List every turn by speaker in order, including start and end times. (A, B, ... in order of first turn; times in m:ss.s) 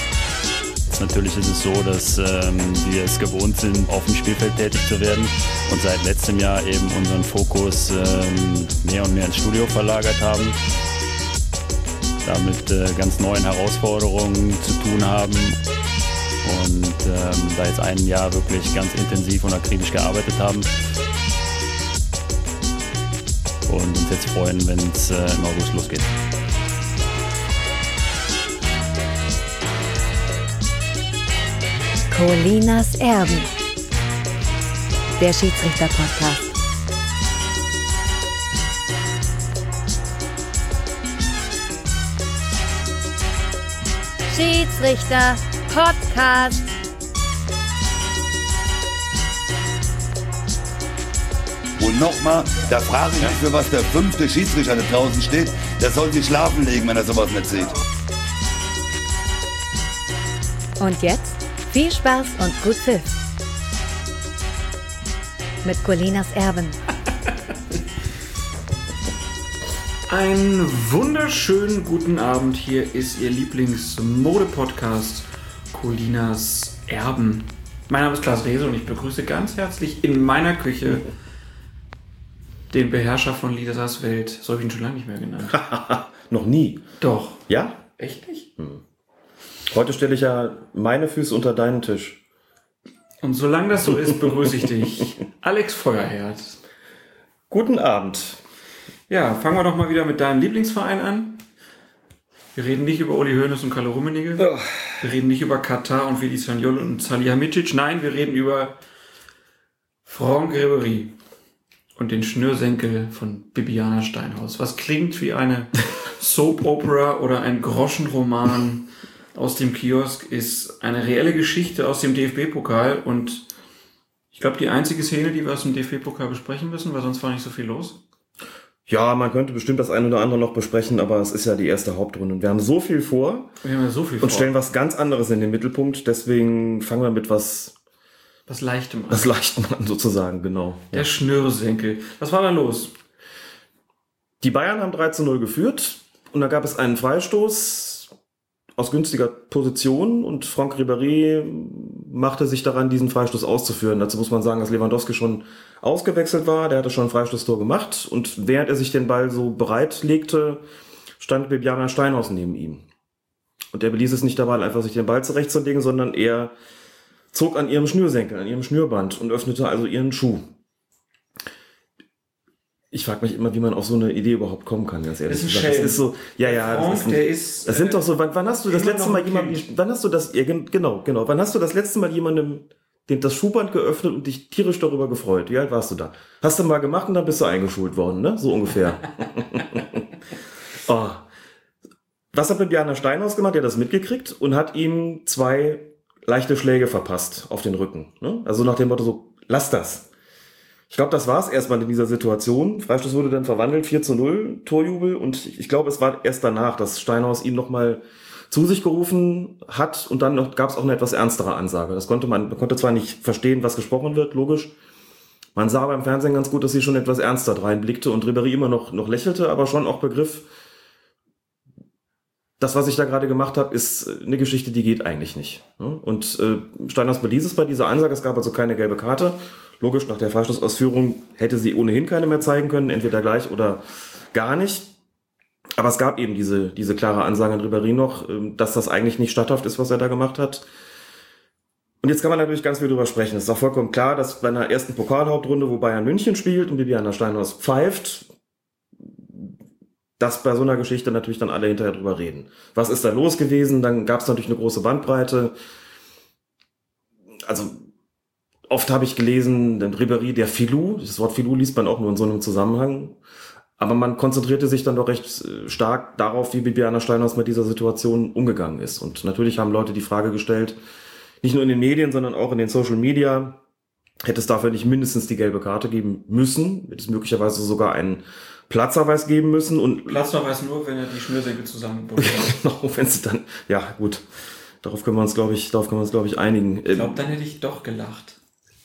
0:00.9-0:10.6 A
0:12.2-0:15.6 A
0:16.4-0:20.7 A
0:23.6-0:26.1 A
0:32.1-0:33.5 B
0:35.2-0:36.5 B
0:44.3-0:46.7 B
0:51.8-0:57.8 C
1:00.8-1:03.1 B
1:05.6-1:06.8 B
1:10.1-1:21.1 D
1:22.7-1:25.6 D
1:25.5-1:26.8 E
1:27.0-1:28.5 D
1:27.5-1:27.8 E
1:29.7-1:32.2 E
1:33.2-1:36.6 D
1:34.0-1:34.5 E
1:37.5-1:38.4 E
1:39.1-1:41.4 D
1:42.5-1:48.8 D
1:44.4-1:45.0 E
1:50.0-1:51.2 D
1:52.0-2:03.5 D
2:04.3-2:08.0 D
2:08.8-2:13.5 E
2:13.6-2:14.5 D
2:14.2-2:17.7 E
2:18.5-2:19.3 D
2:19.1-2:21.1 E
2:20.9-2:22.9 D
2:24.4-2:28.1 E
2:28.8-2:40.6 E
2:41.2-2:42.8 E
2:43.7-2:46.5 E
2:47.3-2:50.5 E
2:52.9-3:10.0 E
2:55.3-2:58.0 D
2:58.6-2:59.6 D
3:10.8-3:11.2 E
3:12.3-3:20.1 E
3:20.9-3:34.7 E
3:35.6-3:40.5 E
3:42.6-3:54.9 E
3:55.8-4:00.7 E
4:02.0-4:08.3 E
4:10.2-4:15.5 E
4:17.4-4:17.8 E
4:18.7-4:23.2 E
4:23.8-4:30.8 E
4:31.4-4:33.6 E
4:34.2-4:40.2 E
4:40.0-4:42.6 D
4:42.2-4:44.2 E
4:44.8-4:47.3 E
4:46.9-4:48.4 D